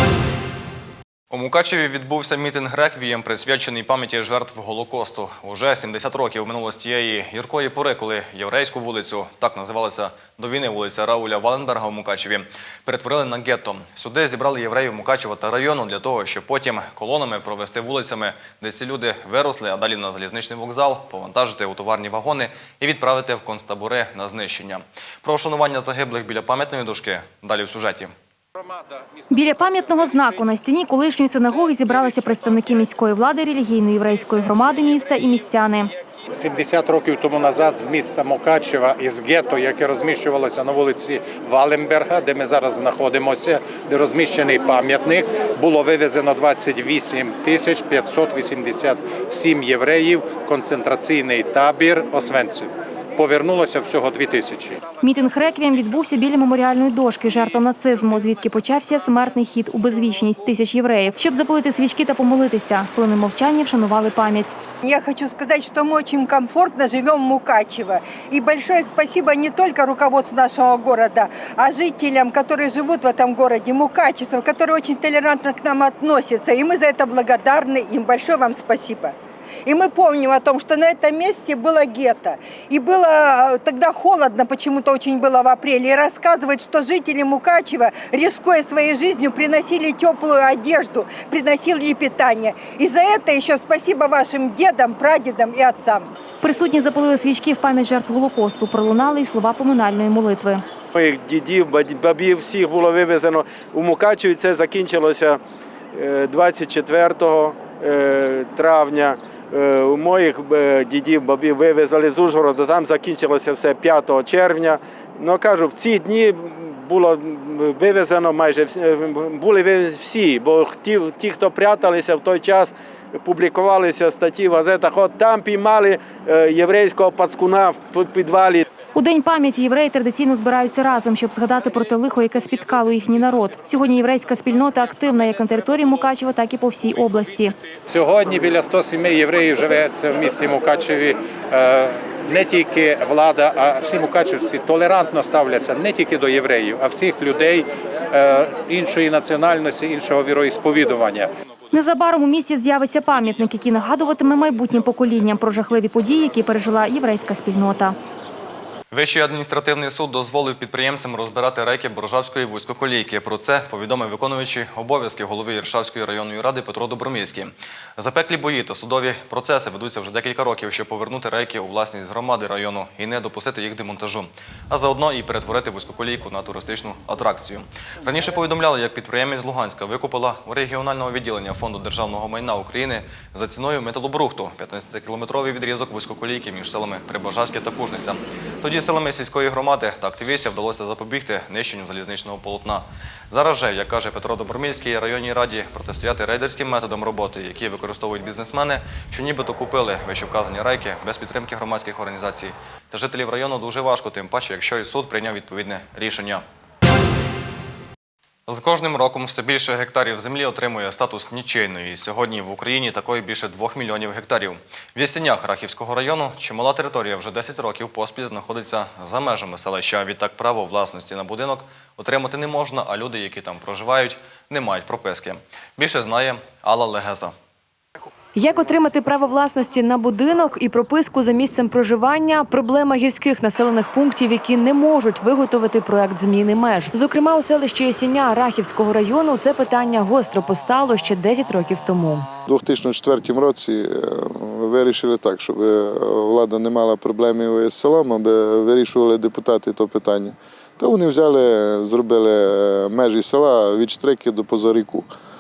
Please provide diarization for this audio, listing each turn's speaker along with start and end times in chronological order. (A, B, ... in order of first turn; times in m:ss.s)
0:01.3-0:28.1 A
0:29.3-0:35.9 B
0:36.3-0:54.8 C
0:55.0-1:04.6 B
1:04.8-1:36.1 D
1:36.4-1:40.6 B
1:41.0-1:45.4 E
1:46.0-2:08.6 E
2:08.9-2:17.6 B
2:17.9-2:31.3 C
2:31.7-2:38.0 B
2:38.9-3:26.4 A
3:28.5-3:47.3 A
3:48.4-4:02.3 F
4:02.5-4:15.1 G